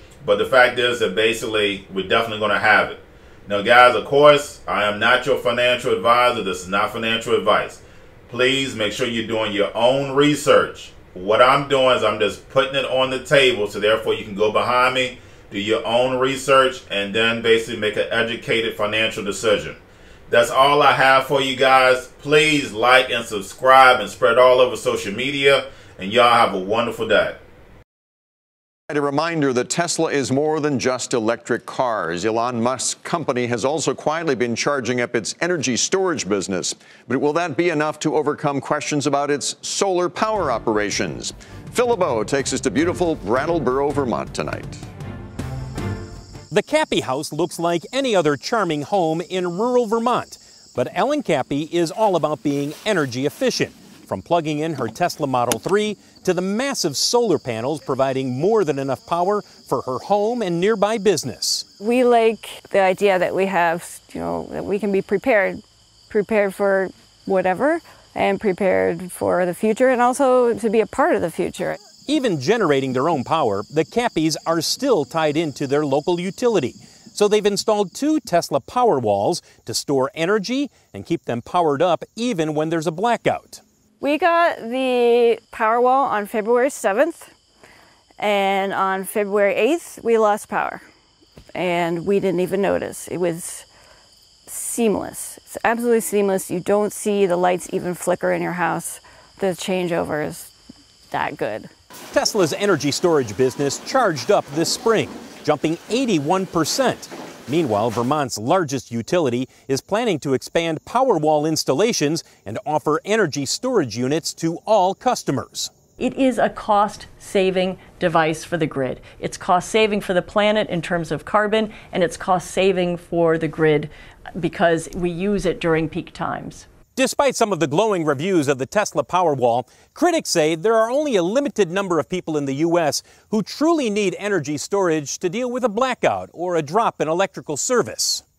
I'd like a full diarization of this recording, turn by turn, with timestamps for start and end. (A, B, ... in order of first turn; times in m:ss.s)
0:00.2-0:27.4 A
0:28.9-0:44.8 B
0:46.5-1:01.7 C
1:01.8-1:11.8 D
1:12.1-1:23.6 C
1:24.0-1:27.3 D
1:28.2-1:30.8 D
1:31.6-1:33.7 D
1:34.5-1:40.5 D
1:41.1-1:41.7 D
1:42.1-1:55.7 C
1:56.0-2:06.7 E
2:07.0-2:18.2 C